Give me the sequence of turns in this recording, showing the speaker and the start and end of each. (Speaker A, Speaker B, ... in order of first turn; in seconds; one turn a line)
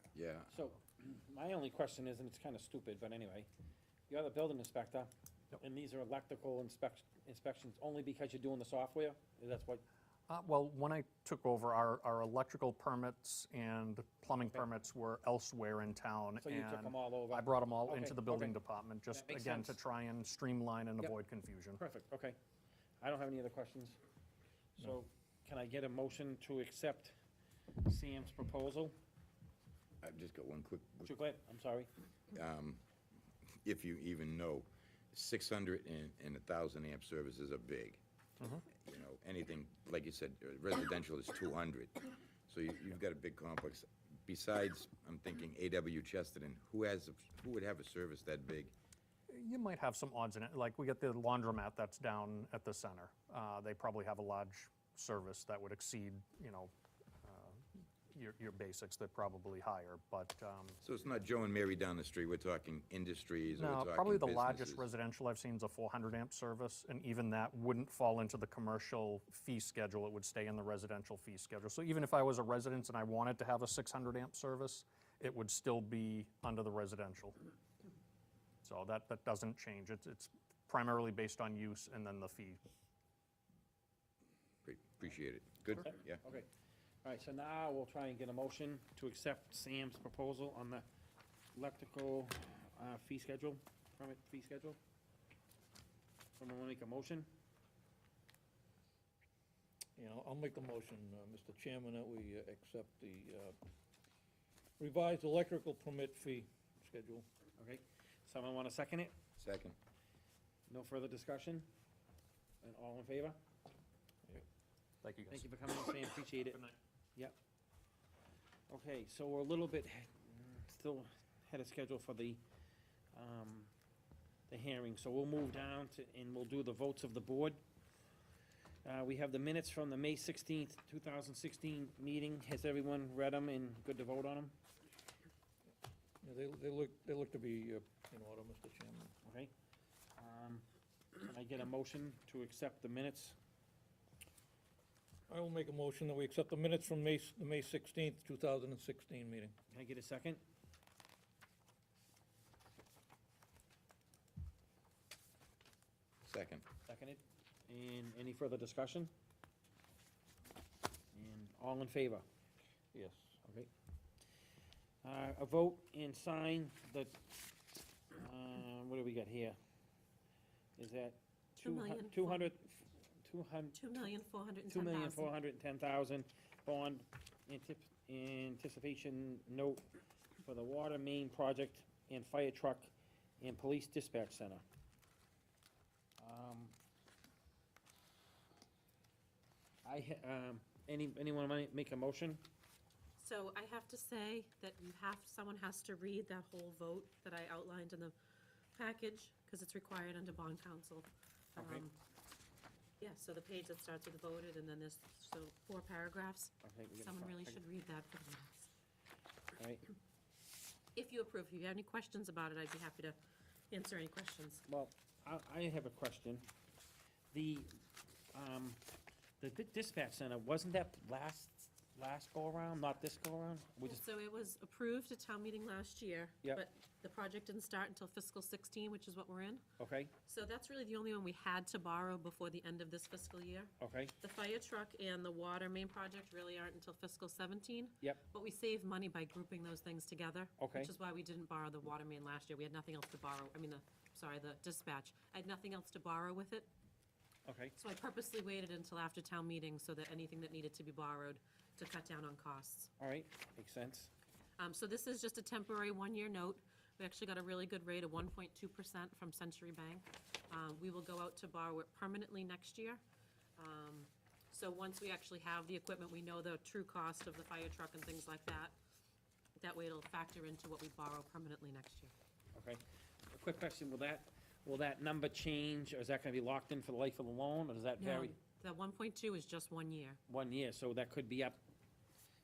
Speaker A: 0.1-0.5
Speaker B: 0.5-3.5
Speaker B: 4.1-5.1
Speaker B: 5.6-9.8
Speaker C: 10.3-21.8
Speaker B: 16.4-18.6
Speaker B: 19.1-19.8
Speaker B: 21.8-22.4
Speaker B: 23.0-24.0
Speaker B: 24.8-27.1
Speaker B: 27.8-28.9
Speaker A: 30.0-31.1
Speaker B: 31.1-31.9
Speaker A: 32.3-32.8
Speaker A: 33.6-38.0
Speaker A: 38.7-48.7
Speaker C: 49.3-56.7
Speaker C: 57.2-60.8
Speaker A: 60.8-64.9
Speaker C: 63.5-77.3
Speaker C: 78.6-82.6
Speaker A: 84.6-86.2
Speaker B: 85.8-86.5
Speaker B: 87.0-90.8
Speaker B: 91.5-94.8
Speaker B: 96.4-97.3
Speaker D: 100.0-103.5
Speaker D: 104.8-107.2
Speaker B: 107.5-109.2
Speaker A: 109.4-109.7
Speaker B: 110.7-111.7
Speaker B: 112.6-113.4
Speaker C: 115.0-115.4
Speaker B: 115.3-116.6
Speaker B: 118.7-122.4
Speaker B: 123.1-123.7
Speaker B: 124.5-127.6
Speaker B: 128.8-134.5
Speaker D: 136.2-139.1
Speaker B: 139.2-139.5
Speaker B: 140.2-140.6
Speaker B: 141.2-143.3
Speaker D: 145.3-149.4
Speaker B: 149.7-150.4
Speaker A: 156.2-156.7
Speaker B: 156.8-159.1
Speaker B: 161.1-162.2
Speaker B: 163.4-163.7
Speaker B: 165.0-167.2
Speaker B: 168.1-169.6
Speaker B: 170.8-174.0
Speaker E: 171.6-172.5
Speaker E: 173.7-175.3
Speaker B: 174.7-179.8
Speaker B: 180.4-184.6
Speaker B: 186.2-186.7
Speaker B: 189.8-192.4
Speaker E: 193.2-198.1
Speaker E: 198.8-201.9
Speaker B: 201.6-201.8
Speaker E: 203.0-208.7
Speaker B: 206.6-207.6
Speaker B: 209.6-209.8
Speaker E: 210.9-213.2
Speaker E: 213.7-214.6
Speaker B: 214.7-216.5
Speaker B: 217.3-217.7
Speaker B: 218.3-218.8
Speaker B: 219.4-224.0
Speaker E: 223.9-229.6
Speaker B: 229.8-230.1
Speaker E: 230.2-246.7
Speaker B: 233.8-234.1
Speaker B: 240.6-240.9
Speaker B: 247.4-247.7
Speaker E: 247.8-252.9
Speaker B: 253.0-254.1
Speaker E: 254.6-263.0
Speaker E: 263.6-268.8
Speaker E: 269.6-272.1
Speaker B: 272.5-278.3
Speaker E: 278.0-280.2
Speaker B: 280.3-281.6